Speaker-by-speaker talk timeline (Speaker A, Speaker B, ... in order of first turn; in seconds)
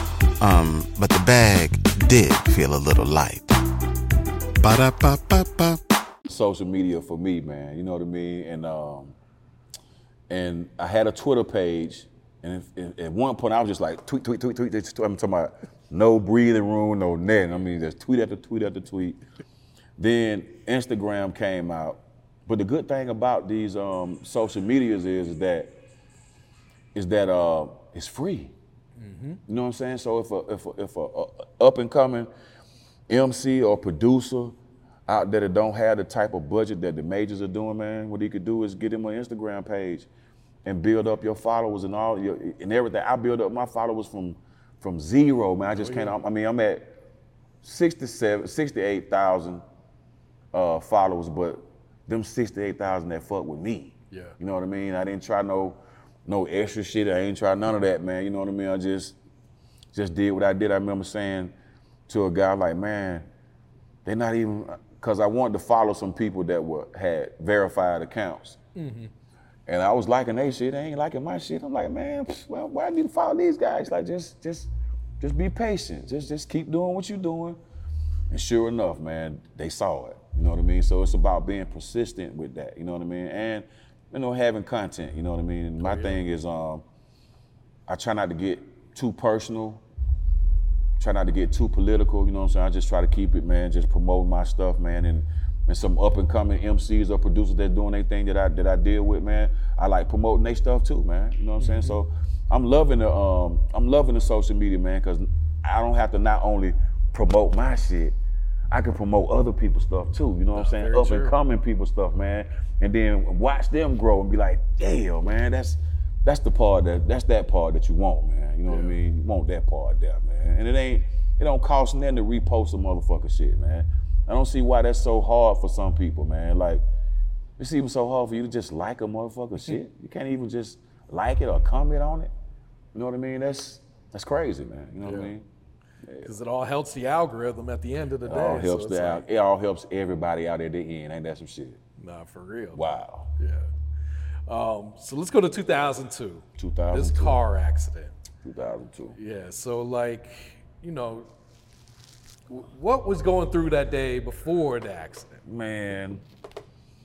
Speaker A: 0.4-3.5, 4.6-5.8
Speaker B: 6.2-9.2, 10.3-19.2, 20.0-25.8, 26.9-28.5, 29.5-32.3, 33.1-40.1, 40.6-47.0, 47.6-49.6, 50.5-59.2, 59.9-61.5, 62.1-63.3, 64.0-68.6, 69.7-77.6, 78.3-86.8, 87.9-89.8, 91.0-108.2, 108.7-126.8, 127.6-132.3, 132.9-135.5, 136.0-136.3, 138.2-141.8, 142.7-143.3, 146.6-147.4, 148.4-149.2, 155.4-156.2
Speaker C: 29.0-29.4, 45.7-46.2, 54.1-54.4, 68.8-69.1, 85.8-86.2, 101.6-102.0, 110.5-111.3, 118.7-119.0, 135.0-135.3, 136.2-139.2, 142.0-142.8, 143.4-143.7, 144.5-148.1, 149.2-151.3, 152.5-155.4